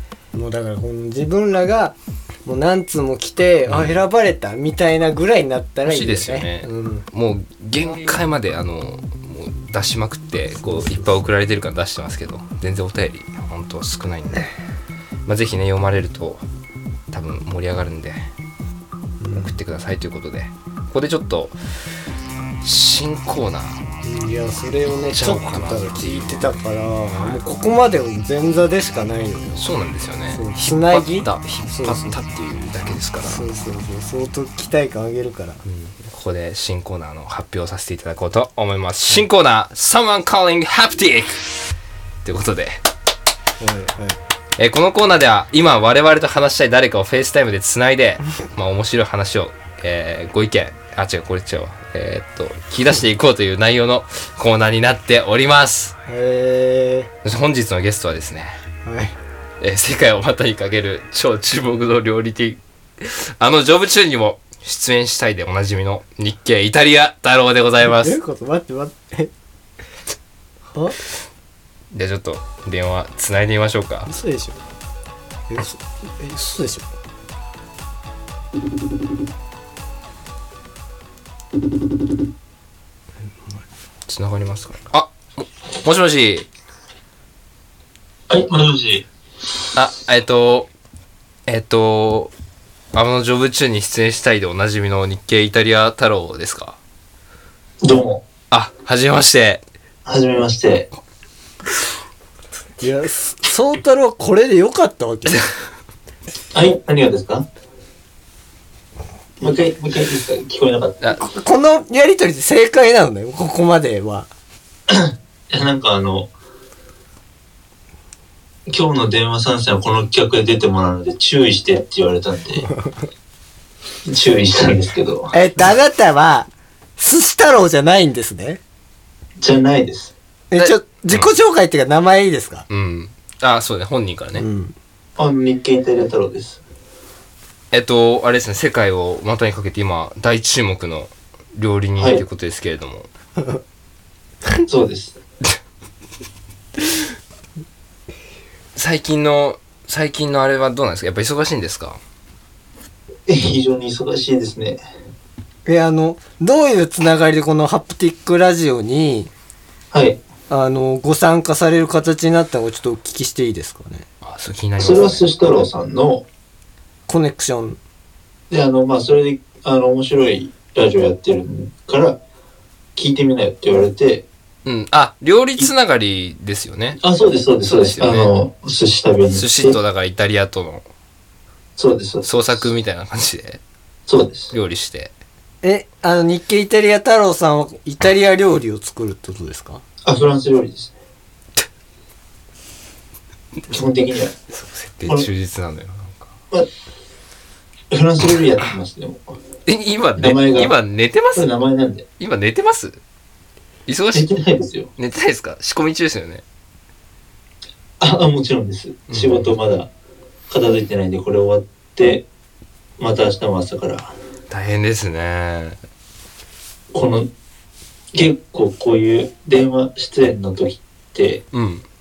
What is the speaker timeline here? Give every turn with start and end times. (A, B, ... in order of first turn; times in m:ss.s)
0:00.3-0:07.0 A
0:03.7-0:04.0 B
0:05.8-0:14.5 B
0:10.5-0:11.2 A
0:15.2-0:16.4 B
0:17.1-0:18.3 B
0:19.2-0:19.6 A
0:19.3-0:21.6 B
0:22.6-0:23.8 B
0:24.0-0:29.7 A
0:24.9-0:26.6 B
0:27.1-0:27.4 B
0:29.6-0:33.4 B
0:30.3-0:32.2 A
0:33.2-0:35.6 A
0:35.6-0:41.5 B
0:42.2-0:42.8 B
0:43.6-0:44.2 A
0:44.6-0:56.0 B
0:56.0-0:57.1 A
0:57.2-0:58.6 B
0:58.8-0:59.2 A
0:59.6-1:08.2 B
1:07.8-1:09.3 A
1:10.7-1:11.0 A
1:11.9-1:14.1 B
1:14.1-1:14.6 A
1:15.5-1:16.9 A
1:24.1-1:26.5 B
1:28.3-1:29.0 C
1:29.7-1:30.7 B
1:31.5-1:32.3 B
1:32.9-1:36.8 B
1:37.8-1:38.2 C
1:38.5-1:39.6 B
1:40.0-1:40.9 C
1:42.8-1:45.4 A
1:46.5-1:47.5 C
1:49.4-1:51.0 C
1:51.1-1:54.3 A
1:54.9-1:56.3 C
1:58.7-2:02.7 C
2:04.0-2:05.3 C
2:05.3-2:08.6 A
2:09.4-2:10.1 C
2:10.5-2:12.7 A
2:10.6-2:11.3 B
2:12.7-2:14.4 B
2:14.3-2:14.7 A
2:15.2-2:16.6 C
2:17.7-2:23.1 B
2:24.6-2:25.2 C
2:28.8-2:32.0 B
2:33.3-2:34.8 C
2:35.6-2:39.3 A
2:39.9-2:40.2 C
2:40.5-2:44.1 A
2:44.2-2:45.3 B
2:44.8-2:46.2 C
2:47.1-2:47.8 A
2:48.5-2:52.2 C
2:53.0-2:54.2 C
2:54.6-2:57.0 B
2:57.0-2:59.8 C
2:57.6-2:58.3 B
2:59.3-3:00.8 B
3:01.8-3:02.7 C
3:02.2-3:03.6 B
3:04.1-3:04.5 C
3:04.5-3:05.1 B
3:05.6-3:09.8 A
3:10.0-3:10.9 C
3:13.7-3:14.4 C
3:14.5-3:16.3 B
3:17.9-3:19.4 C
3:19.6-3:21.5 B
3:20.2-3:20.7 C
3:21.3-3:22.0 C
3:22.2-3:23.0 B
3:23.9-3:24.3 B
3:24.1-3:24.9 C
3:25.0-3:26.4 B
3:28.0-3:29.9 C
3:29.1-3:29.5 B
3:30.5-3:32.2 C
3:33.0-3:34.1 C
3:34.5-3:35.8 B
3:36.9-3:37.3 C
3:38.1-3:41.4 C
3:41.5-3:41.8 B